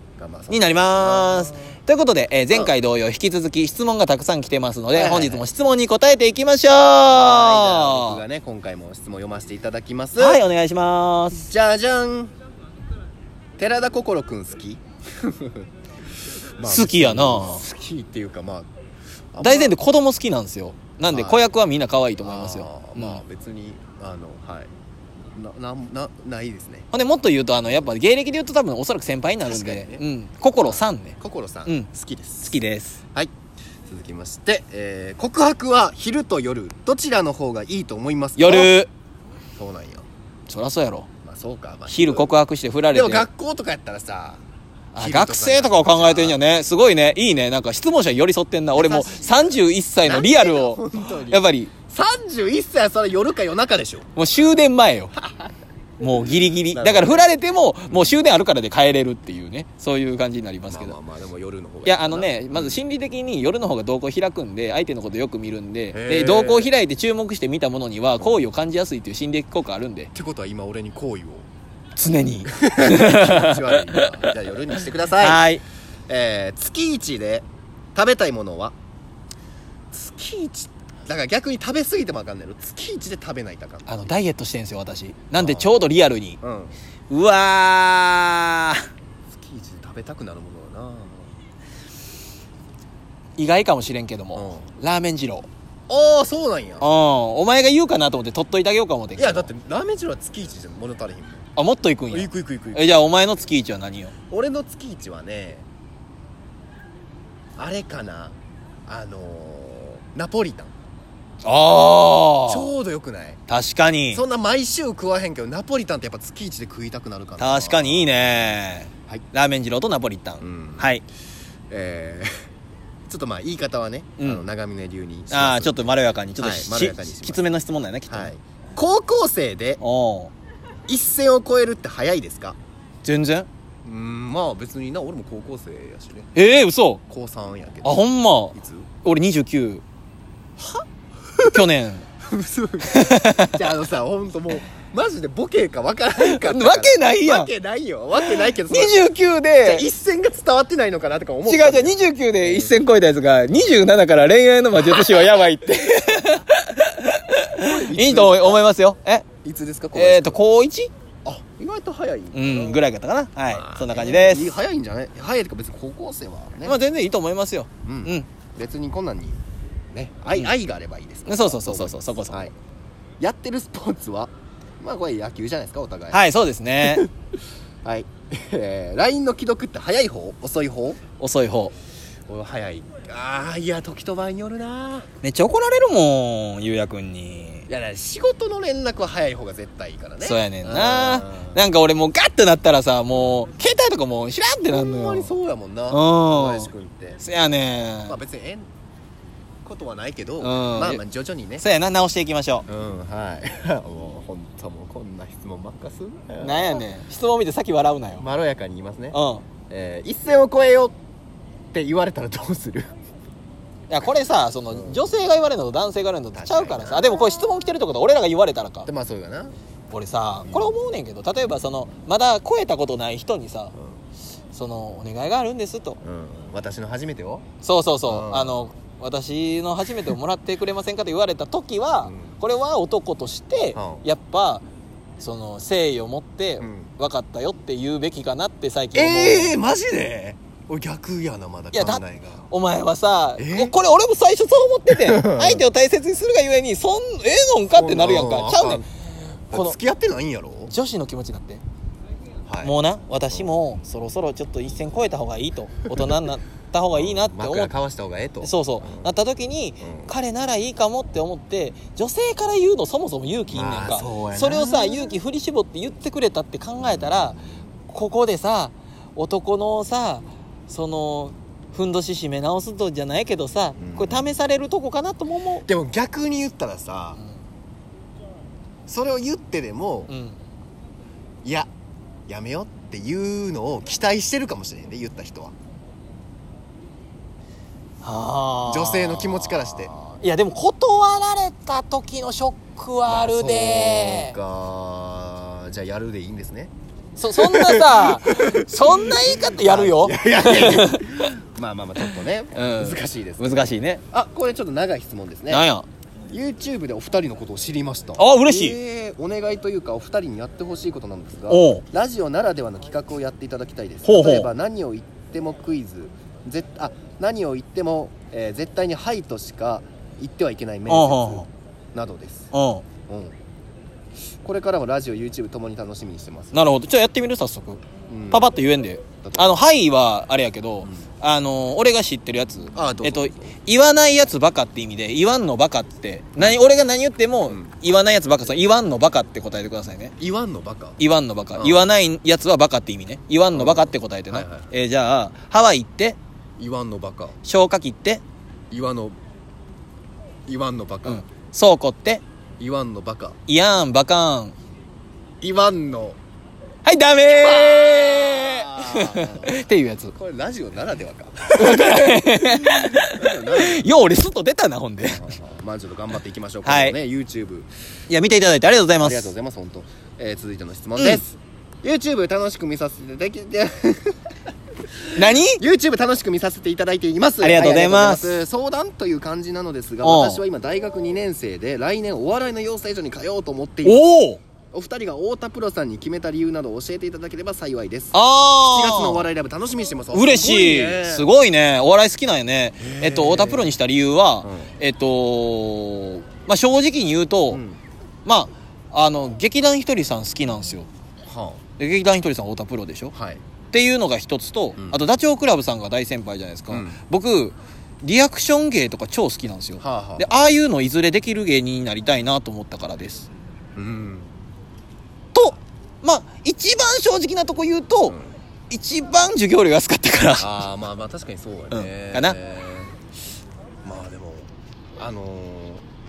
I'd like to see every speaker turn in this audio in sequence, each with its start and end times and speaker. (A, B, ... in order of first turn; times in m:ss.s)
0:00.2-0:01.6 A
0:00.5-0:08.2 B
0:04.9-0:05.4 A
0:07.1-0:10.4 A
0:10.2-0:11.5 B
0:11.3-0:12.3 A
0:13.6-0:15.6 A
0:16.6-0:18.7 A
0:16.7-0:17.6 B
0:19.3-0:19.8 A
0:19.4-0:23.2 B
0:21.1-0:21.4 A
0:22.2-0:24.7 A
0:25.3-0:26.9 A
0:26.9-0:31.1 B
0:29.4-0:30.0 A
0:30.6-0:32.6 A
0:32.4-0:33.0 B
0:33.9-0:38.8 A
0:38.4-0:38.9 B
0:39.6-0:40.0 A
0:40.5-0:41.1 B
0:41.2-0:42.3 A
0:41.9-0:43.3 B
0:42.9-0:44.4 A
0:44.9-0:51.7 B
0:45.0-0:46.4 A
0:48.7-0:54.1 A
0:54.2-0:55.1 B
0:55.2-0:55.5 A
0:56.0-1:01.0 B
0:56.7-0:57.3 A
0:57.9-0:58.2 A
1:00.7-1:02.8 A
1:01.8-1:10.1 B
1:05.9-1:06.7 A
1:10.1-1:11.5 A
1:12.0-1:14.3 B
1:12.5-1:15.4 A
1:15.2-1:15.6 B
1:16.1-1:18.7 A
1:19.9-1:24.0 A
1:23.9-1:26.4 B
1:25.4-1:25.7 A
1:26.4-1:26.7 A
1:27.1-1:28.8 B
1:29.3-1:31.3 A
1:33.4-1:35.5 B
1:34.3-1:34.7 A
1:35.9-1:36.9 A
1:36.8-1:39.5 B
1:39.2-1:41.5 A
1:41.6-1:44.1 B
1:42.1-1:42.9 A
1:44.3-1:45.6 A
1:47.6-1:48.3 A
1:48.8-1:50.7 A
1:51.4-1:52.7 B
1:52.5-1:53.4 A
1:53.5-1:54.2 B
1:54.1-1:58.2 A
1:57.4-2:01.0 B
2:00.4-2:00.9 A
2:01.7-2:02.3 A
2:03.1-2:07.4 A
2:04.2-2:04.4 B
2:05.3-2:08.3 B
2:08.1-2:09.8 A
2:09.8-2:10.3 B
2:10.9-2:12.6 A
2:13.0-2:13.5 B
2:13.8-2:16.3 A
2:16.3-2:17.0 B
2:17.1-2:18.9 A
2:17.8-2:19.8 B
2:21.4-2:21.7 A
2:21.4-2:22.0 B
2:22.3-2:29.0 A
2:22.8-2:23.5 B
2:26.2-2:27.5 B
2:28.2-2:29.8 B
2:29.6-2:32.8 A
2:31.4-2:39.2 B
2:34.8-2:35.2 A
2:37.6-2:38.6 A
2:39.4-2:40.4 A
2:39.9-2:40.9 B
2:41.2-2:42.8 A
2:42.3-2:44.5 B
2:43.5-2:46.8 A
2:46.6-2:48.3 B
2:47.8-2:49.4 A
2:49.9-2:52.5 A
2:51.3-2:52.5 B
2:53.2-2:56.2 A
2:56.1-2:57.0 B
2:56.8-2:57.1 A
2:57.8-3:01.0 A
3:01.2-3:01.7 B
3:02.3-3:05.1 A
3:05.2-3:07.7 B
3:07.7-3:11.6 A
3:10.2-3:15.3 B
3:14.7-3:17.2 A
3:15.9-3:16.7 B
3:17.2-3:18.2 B
3:18.1-3:18.7 A
3:19.6-3:21.6 A
3:20.4-3:21.0 B
3:21.6-3:22.6 B
3:22.7-3:26.8 A
3:26.4-3:28.2 B
3:28.2-3:30.9 A
3:29.1-3:29.4 B
3:31.7-3:32.9 A
3:33.9-3:38.9 B
3:34.7-3:35.1 A
3:36.3-3:37.2 A
3:38.8-3:39.5 A
3:39.9-3:43.7 B
3:40.4-3:40.7 A
3:44.5-3:46.0 B
3:46.0-3:47.4 A
3:47.6-3:54.6 B
3:48.0-3:48.6 A
3:52.0-3:52.3 A
3:53.7-3:54.0 A
3:55.2-3:59.6 B
3:56.6-3:56.9 A
3:58.9-4:02.4 A
4:01.7-4:08.8 B
4:03.4-4:03.8 A
4:04.9-4:05.7 A
4:07.7-4:08.9 A
4:09.5-4:10.7 A
4:10.7-4:11.6 B
4:12.5-4:12.7 A
4:12.6-4:17.7 B
4:16.9-4:19.1 A
4:18.4-4:35.6 B
4:19.8-4:20.1 A
4:23.5-4:25.2 A
4:26.8-4:27.6 A
4:33.8-4:34.3 A
4:35.6-4:37.2 A
4:38.9-4:40.1 A
4:40.1-4:40.4 B
4:41.4-4:41.7 A
4:42.3-4:45.5 A
4:48.0-4:54.3 B
4:48.7-4:49.9 A
4:53.0-4:56.7 A
4:57.2-5:01.3 B
4:57.4-5:05.6 A
5:02.5-5:04.0 B
5:05.5-5:05.8 B
5:06.3-5:22.5 A
5:08.2-5:08.8 B
5:11.5-5:11.8 B
5:14.0-5:14.5 B
5:20.9-5:21.5 B
5:22.5-5:22.8 B
5:23.1-5:23.3 A
5:24.4-5:26.6 A
5:26.5-5:40.1 B
5:28.1-5:28.5 A
5:29.2-5:29.5 A
5:32.7-5:33.5 A
5:40.2-5:41.0 A
5:41.0-5:46.2 B
5:41.5-5:41.9 A
5:43.5-5:44.7 A
5:46.6-5:47.4 A
5:47.4-5:48.2 B
5:48.7-5:49.2 A
5:50.5-5:51.2 A
5:51.0-5:52.2 B
5:52.6-5:53.4 A
5:53.5-5:54.6 B
5:55.4-5:56.2 A
5:56.8-6:00.1 B
5:57.3-5:59.6 A
6:00.1-6:03.9 A
6:01.5-6:05.4 B
6:05.0-6:07.7 A
6:06.6-6:07.0 B
6:08.1-6:09.3 B
6:09.0-6:14.1 A
6:11.0-6:11.2 B
6:15.1-6:15.6 B
6:15.4-6:24.1 A
6:17.4-6:18.4 B
6:20.0-6:20.4 B
6:23.8-6:24.4 B
6:24.7-6:28.2 A
6:28.1-6:29.2 B
6:28.7-6:31.3 A
6:30.1-6:37.6 B
6:32.8-6:33.8 A
6:34.4-6:34.7 A
6:37.5-6:37.8 A
6:38.2-6:40.9 B
6:41.2-6:41.6 A
6:41.8-6:43.1 B
6:43.1-6:43.4 A
6:43.7-6:53.3 B
6:46.7-6:47.0 A
6:49.8-6:50.3 A
6:53.8-6:54.3 A
6:55.3-6:58.2 B
6:58.1-6:58.3 A
6:58.7-7:00.6 B
7:00.4-7:02.9 A
7:01.7-7:02.4 B
7:03.8-7:05.8 A